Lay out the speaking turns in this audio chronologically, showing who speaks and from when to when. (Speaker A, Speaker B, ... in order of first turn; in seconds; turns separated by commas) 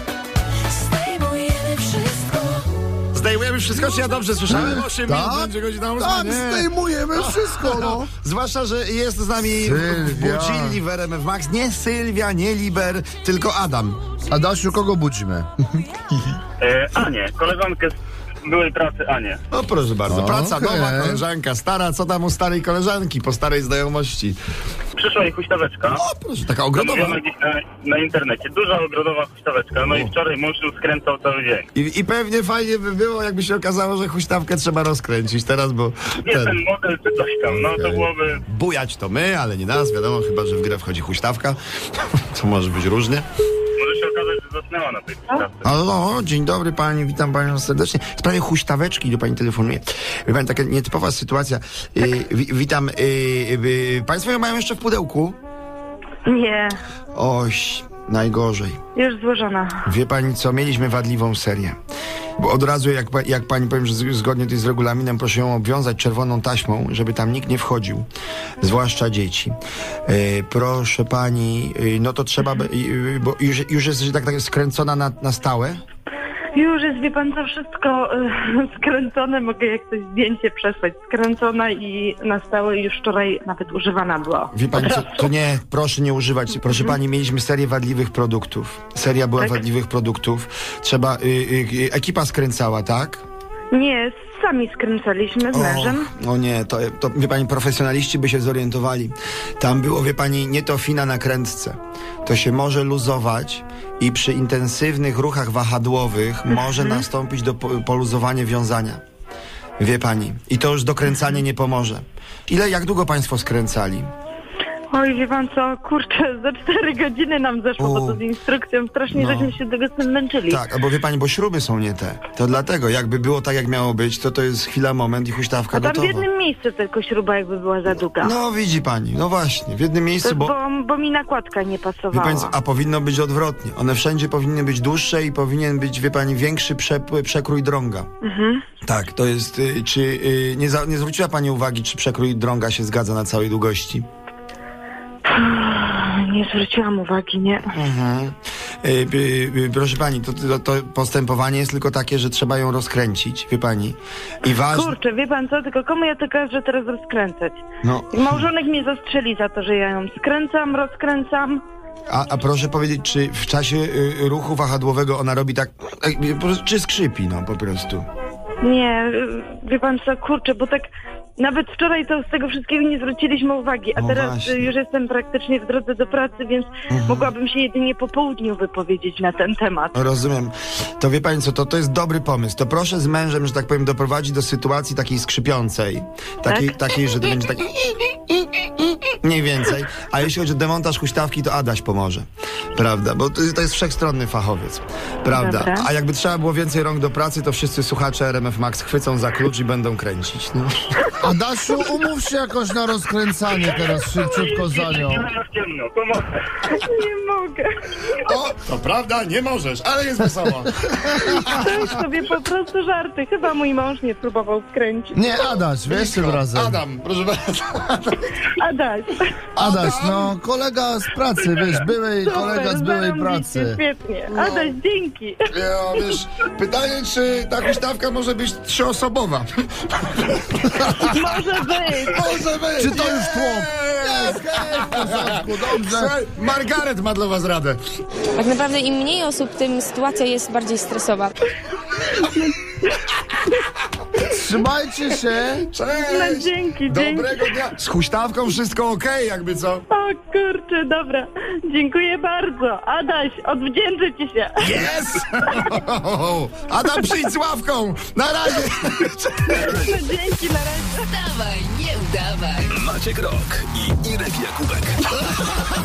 Speaker A: 0.7-2.7, Speaker B: 3.1-14.0, Speaker C: 4.5-8.1, Speaker C: 9.6-10.8, Speaker C: 14.3-15.5, Speaker D: 16.6-19.4, Speaker B: 19.5-24.4, Speaker C: 20.1-21.2, Speaker D: 24.9-26.0, Speaker B: 25.9-27.2, Speaker D: 26.7-31.6, Speaker B: 29.8-30.1, Speaker B: 31.7-36.6, Speaker D: 36.2-38.4, Speaker B: 37.5-43.3, Speaker D: 43.8-45.6, Speaker B: 45.6-55.4, Speaker E: 56.2-56.8, Speaker B: 57.1-58.8, Speaker E: 58.9-59.9, Speaker B: 59.8-61.8, Speaker B: 62.4-68.1, Speaker B: 68.6-69.5, Speaker B: 70.1-75.8, Speaker E: 76.5-85.1, Speaker B: 84.5-93.2, Speaker E: 93.7-96.1, Speaker B: 95.5-109.0, Speaker E: 106.5-107.0, Speaker B: 109.8-114.1, Speaker E: 114.9-120.6, Speaker B: 117.8-118.2, Speaker B: 119.1-119.5, Speaker B: 120.5-126.2, Speaker E: 125.7-128.3, Speaker B: 128.2-130.5, Speaker E: 130.2-132.5, Speaker B: 132.1-138.1, Speaker E: 138.2-138.6, Speaker B: 138.8-144.0, Speaker E: 145.2-147.7, Speaker B: 147.7-154.9, Speaker E: 154.7-157.6, Speaker B: 157.8-158.4, Speaker E: 158.1-161.6, Speaker B: 162.1-168.1, Speaker E: 168.6-180.0, Speaker B: 173.9-174.7, Speaker B: 176.9-177.3, Speaker B: 179.9-201.1, Speaker E: 186.5-186.7, Speaker E: 195.3-195.9, Speaker C: 201.2-205.2, Speaker D: 204.0-206.3, Speaker E: 206.6-207.7, Speaker B: 208.2-211.8, Speaker E: 211.4-215.2, Speaker C: 215.1-216.8, Speaker B: 215.8-218.3, Speaker E: 218.5-219.4, Speaker B: 219.6-220.3, Speaker C: 219.6-223.8, Speaker E: 222.2-225.4, Speaker B: 224.3-224.7, Speaker B: 225.5-231.3, Speaker E: 231.0-232.2, Speaker B: 232.1-237.8, Speaker C: 232.8-236.1, Speaker F: 238.4-241.3, Speaker E: 242.0-242.9, Speaker C: 244.2-245.7, Speaker B: 245.7-249.8, Speaker E: 246.0-247.4, Speaker E: 249.9-254.8, Speaker B: 254.6-259.9, Speaker E: 259.5-260.9, Speaker A: 260.9-262.9, Speaker G: 262.7-265.1